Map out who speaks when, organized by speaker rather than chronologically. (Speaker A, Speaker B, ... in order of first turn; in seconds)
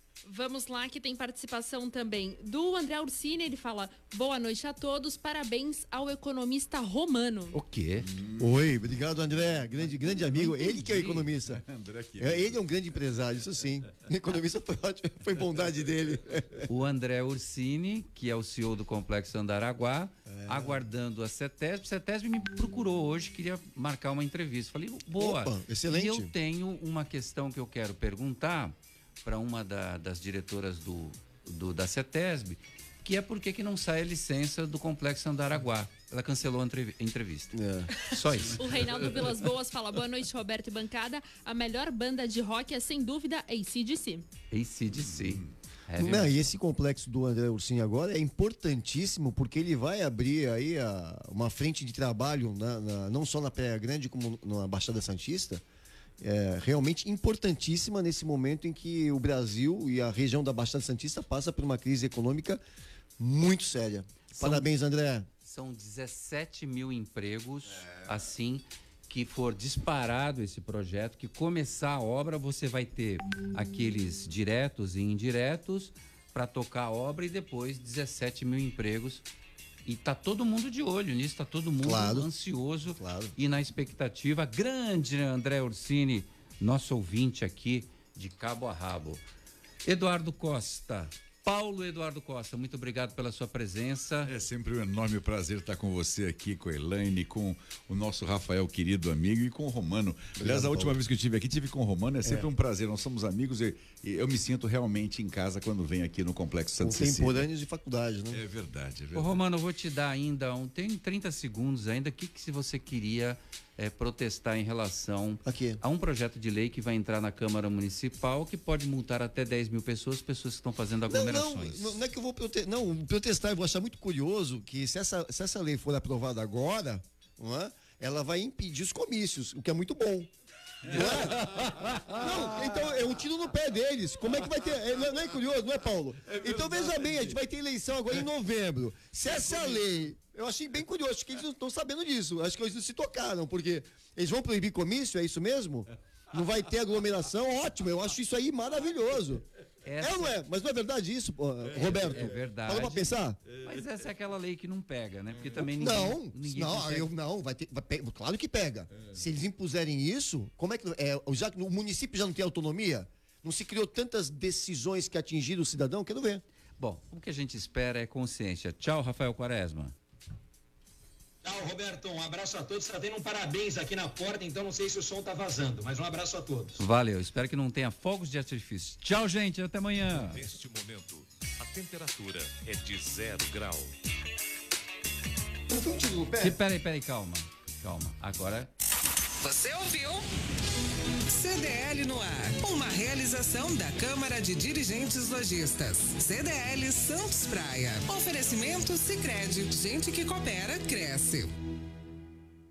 Speaker A: 0.2-7.6, 38.6-44.3
Speaker B: 7.5-8.1, 16.7-38.6, 44.5-46.3, 64.3-64.7, 65.4-79.2, 79.8-89.2, 89.8-94.3, 109.1-122.0, 149.8-150.4, 151.8-157.1, 166.8-169.9, 176.8-180.5, 186.4-188.7
Speaker C: 8.0-8.8, 9.8-12.6, 94.2-107.5, 108.3-109.4
Speaker D: 8.4-11.6, 12.2-16.7, 20.3-20.8, 25.1-26.3, 37.5-37.9, 46.0-55.6, 56.2-62.6, 63.2-65.3, 81.8-82.3, 82.9-83.3, 100.4-101.0, 102.2-102.5, 106.8-108.4, 115.4-115.8, 121.1-130.3, 130.8-149.4, 150.0-153.4, 155.6-166.4, 185.7-186.6
Speaker E: 171.4-176.8
Speaker F: 180.1-183.9
Speaker G: 189.4-190.2, 191.3-201.5